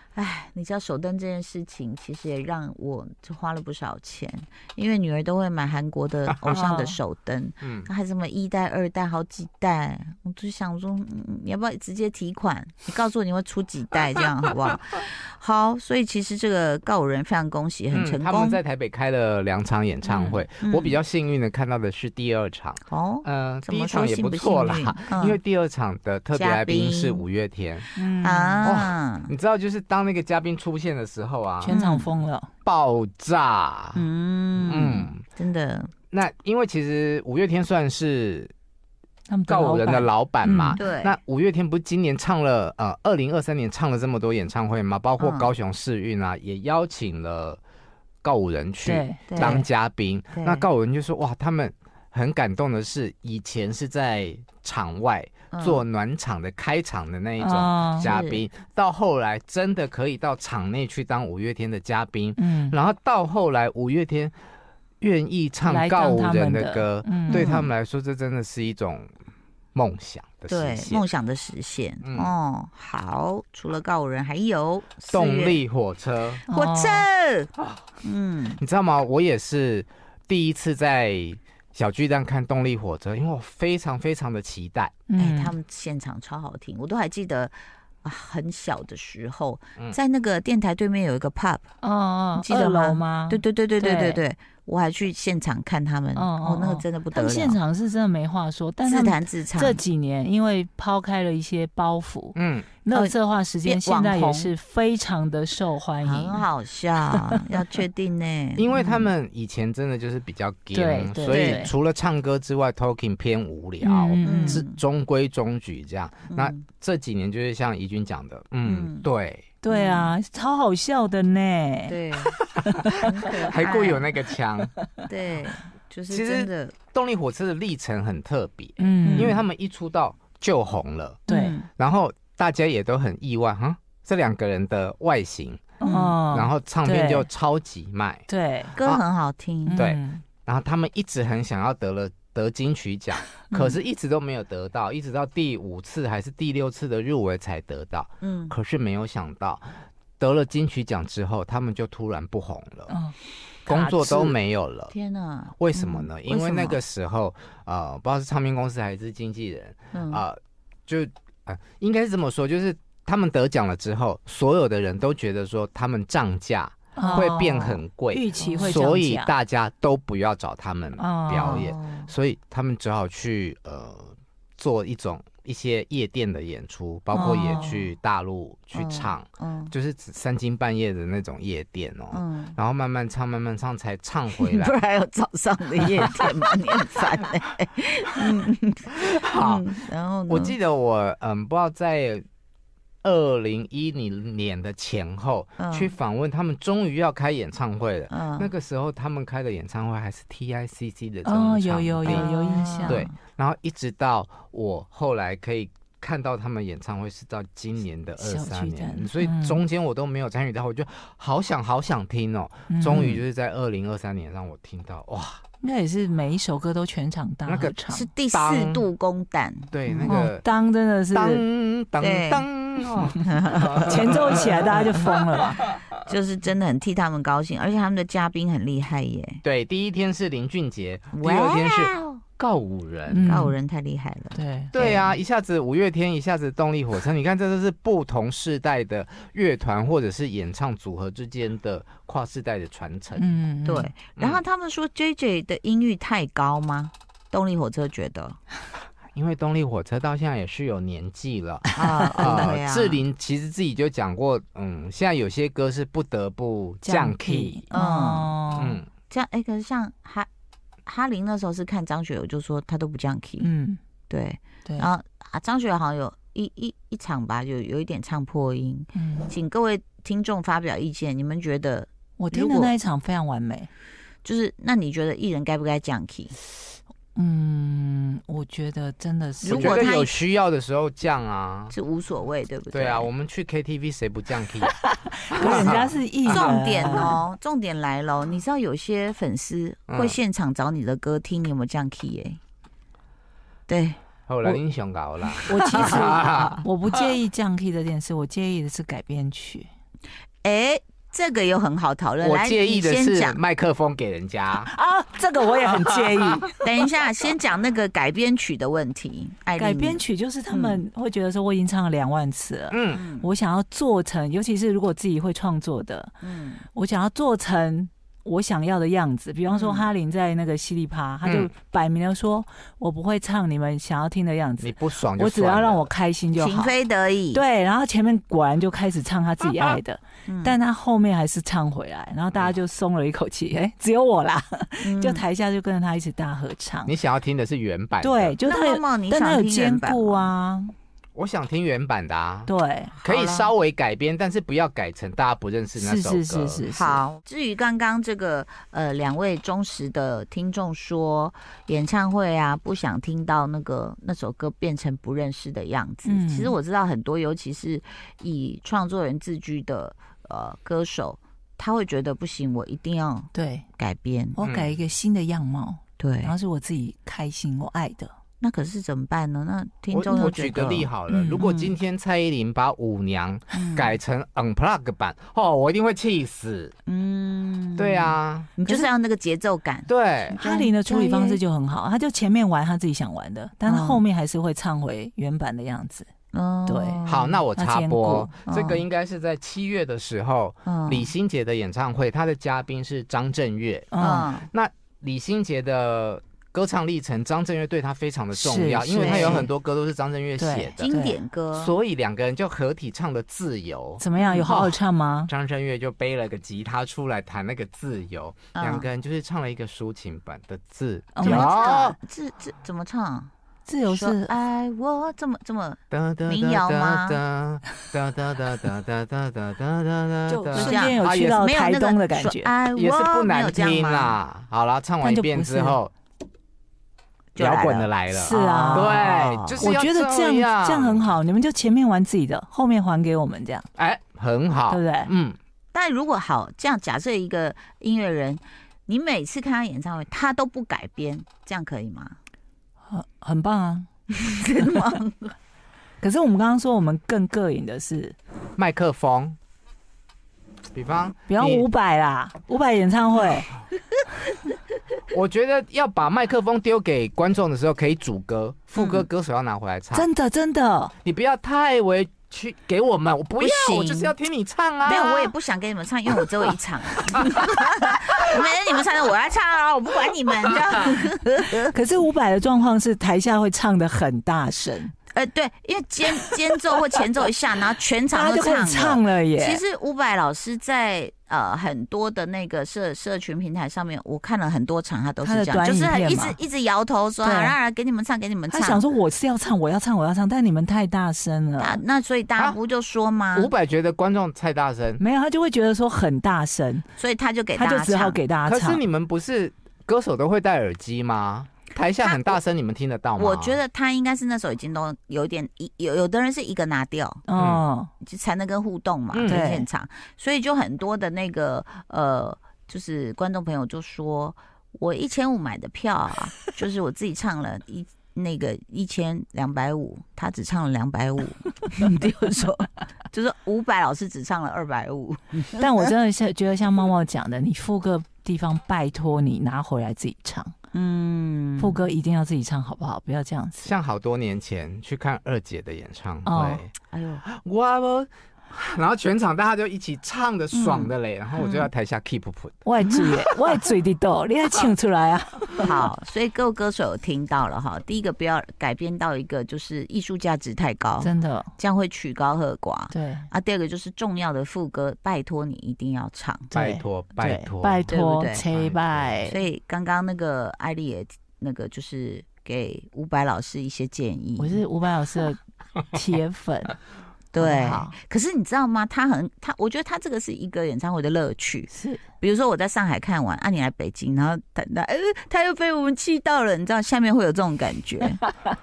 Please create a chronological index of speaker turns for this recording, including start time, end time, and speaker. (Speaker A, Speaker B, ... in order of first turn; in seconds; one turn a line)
Speaker A: 0.1-18.6
Speaker B: 6.5-7.0
Speaker C: 7.6-7.9
Speaker C: 17.9-27.9
Speaker B: 20.0-20.4
Speaker A: 20.6-21.0
Speaker A: 22.9-25.4
Speaker A: 26.3-27.2
Speaker B: 27.9-28.8
Speaker A: 28.2-29.3
Speaker C: 28.6-31.8
Speaker B: 31.6-32.5
Speaker A: 31.7-32.1
Speaker C: 32.6-34.0
Speaker A: 33.9-35.9
Speaker C: 34.6-35.2
Speaker C: 36.1-38.5
Speaker B: 39.3-40.8
Speaker C: 39.5-47.6
Speaker A: 40.8-41.2
Speaker A: 45.2-45.5
Speaker C: 48.2-64.3
Speaker B: 48.8-49.6
Speaker A: 49.3-49.6
Speaker A: 50.3-50.6
Speaker A: 55.5-55.8
Speaker B: 57.4-58.1
Speaker A: 58.0-58.5
Speaker B: 62.4-62.8
Speaker C: 65.0-69.1
Speaker B: 65.6-67.5
Speaker A: 67.3-67.7
Speaker C: 69.7-71.0
Speaker A: 70.5-75.6
Speaker C: 72.0-72.3
Speaker C: 75.1-76.4
Speaker B: 76.5-77.0
Speaker A: 76.5-77.5
Speaker A: 78.0-78.6
Speaker C: 78.6-85.0
Speaker B: 85.1-85.5
Speaker A: 85.2-91.7
Speaker B: 91.8-94.2
Speaker A: 92.4-97.6
Speaker B: 96.1-106.4
Speaker A: 98.8-99.8
Speaker C: 102.3-102.7
Speaker A: 102.9-104.5
Speaker A: 106.0-109.1
Speaker C: 108.6-119.5
Speaker B: 110.7-111.7
Speaker A: 111.3-111.7
Speaker B: 113.8-114.6
Speaker A: 114.2-114.8
Speaker A: 116.3-116.6
Speaker A: 118.6-119.0
Speaker B: 119.6-122.0
Speaker A: 119.7-120.2
Speaker A: 121.9-122.4
Speaker B: 122.7-123.0
Speaker C: 122.7-124.7
Speaker A: 123.0-124.1
Speaker A: 125.1-126.8
Speaker C: 126.1-131.2
Speaker B: 128.8-129.4
Speaker A: 129.0-129.3
Speaker B: 131.3-131.6
Speaker A: 131.3-131.7
Speaker C: 131.8-135.7
Speaker B: 135.8-137.3
Speaker A: 135.8-136.1
Speaker C: 136.3-138.3
Speaker B: 138.3-138.8
Speaker A: 138.8-139.8
Speaker B: 139.7-140.2
Speaker C: 139.8-152.9
Speaker A: 148.2-148.5
Speaker B: 152.9-154.3
Speaker C: 153.7-154.9
Speaker A: 154.9-156.8
Speaker C: 155.6-184.7
Speaker A: 159.9-160.2
Speaker B: 166.9-169.3
Speaker A: 167.0-167.3
Speaker A: 168.4-168.8
Speaker B: 171.0-171.7
Speaker A: 171.3-172.1
Speaker A: 177.1-177.9
Speaker B: 177.2-177.7
Speaker A: 178.7-179.7
Speaker A: 182.1-182.6
Speaker A: 184.4-190.6
Speaker C: 189.1-189.7
Speaker C: 190.3-192.2
Speaker C: 193.0-202.2
Speaker A: 195.6-195.9
Speaker A: 198.1-198.5
Speaker B: 201.2-203.1
Speaker A: 202.1-203.1
Speaker C: 202.8-215.4
Speaker B: 208.2-209.6
Speaker B: 212.7-213.2
Speaker B: 215.6-218.1
Speaker C: 217.5-217.7
Speaker A: 217.9-220.2
Speaker C: 218.3-218.8
Speaker C: 219.7-220.4
Speaker B: 220.1-221.4
Speaker C: 221.1-225.6
Speaker A: 222.0-222.4
Speaker A: 223.2-224.0
Speaker B: 223.9-225.6
Speaker A: 226.0-229.4
Speaker C: 229.4-233.3
Speaker A: 231.1-232.2
Speaker B: 233.1-233.5
Speaker A: 233.2-235.1
Speaker B: 234.3-234.8
Speaker C: 234.7-243.3
Speaker B: 243.2-243.9
Speaker A: 243.6-248.4
Speaker C: 244.2-244.4
Speaker C: 249.1-257.6
Speaker A: 251.7-253.0
Speaker B: 256.8-258.8
Speaker A: 257.7-258.3
Speaker C: 258.5-258.9
Speaker A: 259.1-260.3
Speaker A: 260.9-263.5
Speaker B: 263.4-263.8
Speaker A: 264.1-272.7
Speaker B: 268.9-269.3
Speaker B: 272.2-273.7
Speaker A: 274.2-276.4
Speaker B: 277.1-279.9
Speaker A: 279.4-280.2
Speaker C: 279.5-281.7
Speaker A: 281.7-283.1
Speaker C: 282.7-284.8
Speaker B: 284.7-287.2
Speaker C: 285.3-287.1
Speaker A: 285.4-292.4
Speaker C: 289.9-290.2
Speaker A: 293.7-294.0
Speaker C: 294.3-297.0
Speaker B: 295.4-299.7
Speaker A: 295.7-296.2
Speaker A: 300.4-303.4
Speaker C: 302.2-304.7
Speaker B: 304.6-306.6
Speaker C: 305.8-306.4
Speaker A: 306.6-310.8
Speaker B: 309.6-316.1
Speaker C: 312.7-313.0
Speaker A: 312.9-313.3
Speaker A: 316.2-316.6
Speaker B: 316.7-326.7
Speaker A: 319.5-319.9
Speaker C: 321.2-321.5
Speaker C: 324.6-325.9
Speaker A: 326.4-327.4
Speaker B: 327.3-336.9
Speaker A: 330.3-330.6
Speaker A: 334.8-335.2
Speaker C: 336.9-338.4
Speaker B: 338.0-340.7
Speaker A: 338.4-340.3
Speaker C: 341.1-342.5
Speaker B: 342.4-342.9
Speaker A: 342.9-343.5
Speaker C: 343.0-346.6
Speaker B: 345.8-347.0
Speaker A: 346.7-364.4
Speaker B: 356.1-356.6
Speaker B: 363.3-363.6
Speaker B: 364.4-368.1
Speaker C: 364.4-364.7
Speaker A: 366.0-366.3
Speaker A: 368.4-371.7
Speaker C: 369.9-376.7
Speaker B: 371.1-371.4
Speaker A: 373.5-373.9
Speaker A: 376.9-381.4
Speaker C: 377.8-378.6
Speaker C: 379.9-380.4
Speaker B: 380.3-386.1
Speaker A: 383.6-384.0
Speaker A: 386.3-387.4
Speaker B: 386.7-387.0
Speaker C: 387.1-393.9
Speaker B: 387.5-388.3
Speaker A: 388.5-388.8
Speaker A: 390.6-391.1
Speaker B: 393.9-394.3
Speaker A: 394.0-394.5
Speaker C: 394.4-400.9
Speaker B: 398.3-399.5
Speaker A: 399.0-399.5
Speaker B: 400.4-401.2
Speaker A: 400.8-401.7
Speaker C: 401.5-411.9
Speaker B: 404.0-405.3
Speaker A: 404.2-404.5
Speaker A: 408.5-408.9
Speaker B: 411.1-412.0
Speaker A: 411.2-413.3
Speaker B: 413.6-414.3
Speaker A: 413.9-417.2
Speaker C: 415.9-421.3
Speaker B: 420.3-422.5
Speaker A: 420.5-424.2
Speaker C: 422.7-425.9
Speaker B: 425.0-425.8
Speaker A: 427.3-429.7
Speaker C: 427.4-431.1
Speaker B: 428.1-429.0
Speaker B: 429.6-433.6
Speaker C: 433.8-435.4
Speaker B: 434.7-435.1
Speaker A: 435.7-442.2
Speaker B: 442.9-443.9
Speaker A: 444.1-445.3
Speaker B: 444.6-445.0
Speaker B: 446.0-448.1
Speaker C: 448.6-449.4
Speaker C: 450.7-451.7
Speaker B: 451.3-453.5
Speaker C: 455.1-460.1
Speaker A: 458.7-459.1
Speaker B: 459.9-460.9
Speaker C: 461.0-465.3
Speaker A: 463.4-464.1
Speaker A: 464.8-471.7
Speaker B: 471.7-474.9
Speaker A: 475.1-488.8
Speaker B: 478.1-479.6
Speaker B: 485.2-486.4
Speaker B: 487.2-487.5
Speaker B: 488.5-491.8
Speaker A: 491.6-493.5
Speaker C: 493.3-495.0
Speaker B: 495.0-496.9
Speaker A: 497.0-498.2
Speaker B: 497.5-498.8
Speaker C: 498.4-503.6
Speaker A: 502.0-502.4
Speaker A: 503.2-507.2
Speaker B: 507.3-507.9
Speaker C: 507.4-507.6
Speaker A: 508.0-525.9
Speaker C: 509.1-509.5
Speaker B: 509.2-509.7
Speaker B: 525.6-530.5
Speaker A: 530.7-531.8
Speaker B: 531.6-533.7
Speaker C: 533.6-536.7
Speaker B: 536.2-536.6
Speaker A: 536.9-537.2
Speaker C: 537.2-543.5
Speaker A: 540.5-540.9
Speaker B: 542.6-545.7
Speaker A: 545.6-556.5
Speaker B: 551.0-551.5
Speaker B: 552.9-553.3
Speaker C: 556.5-557.9
Speaker B: 556.5-559.4
Speaker A: 557.9-558.4
Speaker C: 558.4-559.2
Speaker A: 559.2-564.6
Speaker B: 564.4-565.4
Speaker B: 565.9-566.8
Speaker A: 567.3-578.2
Speaker B: 567.4-567.9
Speaker B: 571.7-572.0